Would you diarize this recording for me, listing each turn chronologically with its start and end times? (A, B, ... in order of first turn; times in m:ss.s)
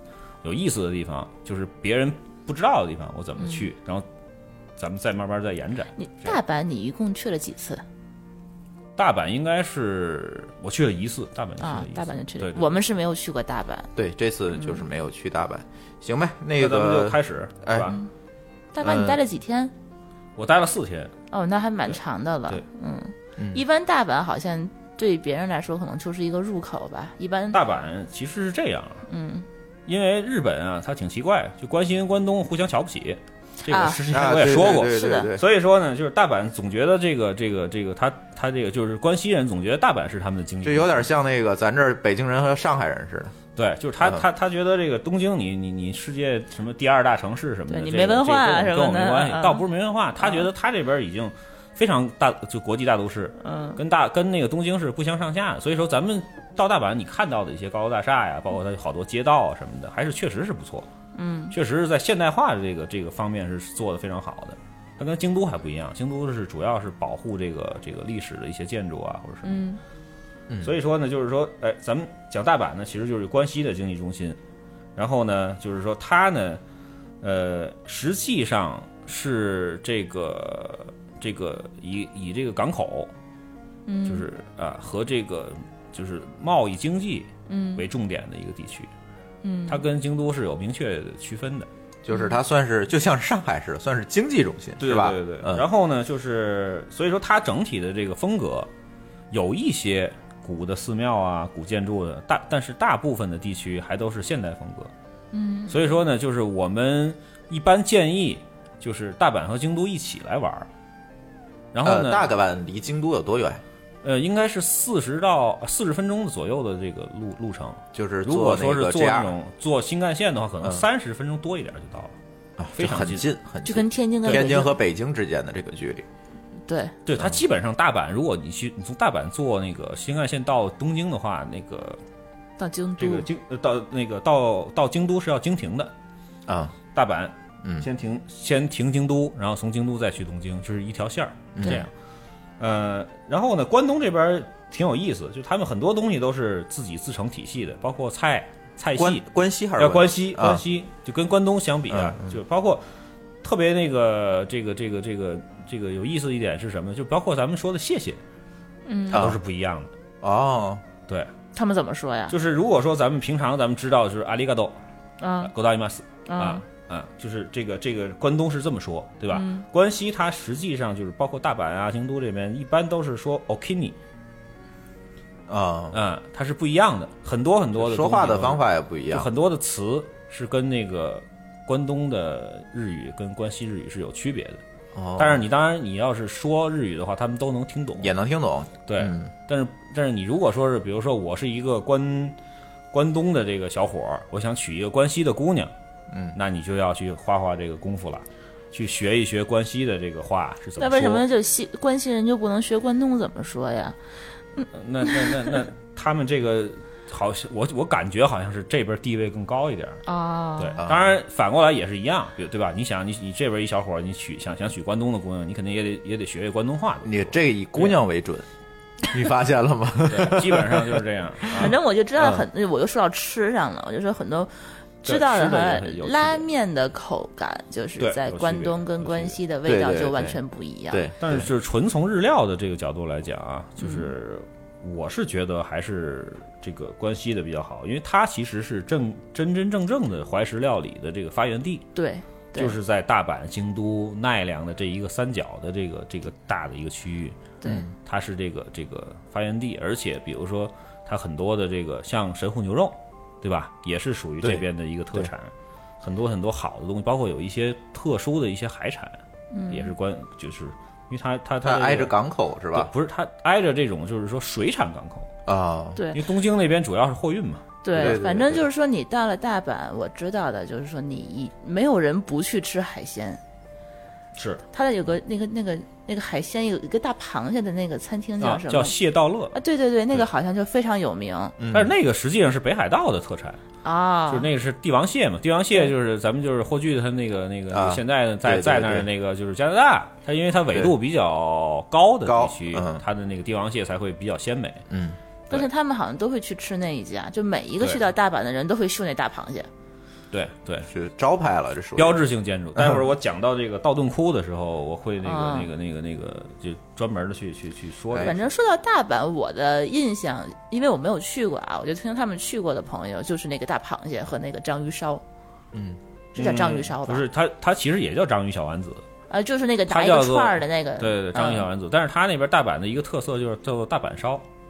0:00.4-0:04.0 A
0:03.4-0:03.7 B
0:04.8-0:06.4 A
0:06.0-0:07.8 B
0:09.0-0:12.7 A
0:11.6-0:13.9 B
0:14.0-0:17.9 C
0:14.5-0:14.8 B
0:16.6-0:18.0 A
0:18.7-0:19.7 B
0:18.8-0:19.2 C
0:20.4-0:21.1 A
0:21.3-0:27.6 B
0:23.4-0:23.6 C
0:27.5-0:29.0 A
0:29.1-0:29.5 B
0:29.9-0:41.1 A
0:33.7-0:34.0 B
0:34.1-0:35.4 C
0:34.8-0:35.3 B
0:40.6-0:43.4 C
0:43.6-1:00.9 A
0:44.0-0:44.2 C
0:47.7-0:49.6 B
0:50.2-0:50.4 B
0:53.4-0:53.8 B
1:01.2-1:01.6 B
1:01.5-1:09.6 A
1:09.4-1:09.8 B
1:10.5-1:10.8 C
1:10.6-1:14.4 A
1:15.0-1:16.6 A
1:17.2-1:23.1 A
1:23.9-1:24.3 B
1:24.1-1:28.9 A
1:27.5-1:27.9 B
1:29.4-1:29.8 B
1:29.7-1:31.7 A
1:32.0-1:35.6 C
1:32.1-1:32.4 B
1:34.8-1:38.7 A
1:39.3-1:44.9 A
1:45.3-1:46.0 B
1:45.7-1:50.7 A
1:51.7-1:52.3 A
1:51.8-1:53.6 C
1:54.0-2:02.2 A
1:57.9-1:59.3 C
2:02.6-2:06.0 C
2:02.8-2:03.2 A
2:03.6-2:04.7 B
2:04.3-2:04.5 A
2:06.7-2:07.0 B
2:07.1-2:12.0 A
2:12.6-2:13.3 B
2:13.0-2:15.9 A
2:16.5-2:16.8 C
2:16.9-2:21.9 A
2:21.6-2:21.9 C
2:22.6-2:29.2 A
2:29.0-2:30.6 C
2:29.8-2:32.8 A
2:31.9-2:32.4 C
2:33.4-2:38.2 A
2:38.9-2:39.2 B
2:39.1-2:39.9 A
2:39.1-2:39.4 C
2:40.2-2:40.8 C
2:41.6-2:42.3 B
2:42.3-2:44.8 A
2:45.2-2:45.5 B
2:45.4-2:54.0 A
2:46.3-2:46.6 B
2:49.3-2:49.6 B
2:55.5-2:56.0 C
2:55.9-3:04.6 A
2:57.8-2:59.3 C
3:05.0-3:05.4 C
3:05.2-3:08.1 A
3:08.0-3:09.3 C
3:08.9-3:12.4 A
3:12.9-3:15.7 A
3:16.1-3:16.4 C
3:16.4-3:21.2 A
3:20.8-3:24.0 B
3:24.6-3:25.3 B
3:24.7-3:30.0 A
3:30.1-3:30.8 B
3:30.6-3:38.0 A
3:30.8-3:31.2 C
3:37.0-3:38.4 C
3:39.1-3:41.0 C
3:40.1-3:41.8 A
3:41.5-3:44.5 B
3:45.0-3:51.0 B
3:45.0-3:46.5 A
3:48.0-3:49.4 A
3:49.7-3:50.4 C
3:50.9-3:51.5 C
3:51.2-4:01.8 A
3:53.8-3:54.1 B
4:02.0-4:02.8 B
4:02.6-4:07.4 A
4:07.6-4:07.9 C
4:08.0-4:15.5 A
4:14.4-4:15.3 C
4:16.0-4:22.1 A
4:19.5-4:19.9 B
4:21.6-4:22.9 C
4:22.7-4:25.3 A
4:25.5-4:26.0 C
4:26.1-4:28.2 A
4:27.8-4:33.4 B
4:28.0-4:28.6 C
4:34.4-4:34.6 A
4:34.7-4:39.0 B
4:38.4-4:39.6 A
4:39.5-4:41.6 B
4:41.6-4:41.9 C
4:41.7-4:43.6 A
4:43.8-4:44.5 B
4:44.3-4:54.8 A
4:47.7-4:49.1 C
4:52.2-4:53.0 C
4:54.9-4:55.2 C
4:55.5-4:59.7 B
5:00.3-5:00.9 A
5:00.9-5:02.2 C
5:02.0-5:08.4 A
5:02.8-5:03.0 C
5:05.2-5:05.7 B
5:08.2-5:15.2 B
5:15.7-5:16.0 C
5:16.4-5:17.2 B
5:16.4-5:19.0 A
5:19.3-5:21.7 B
5:19.9-5:24.4 A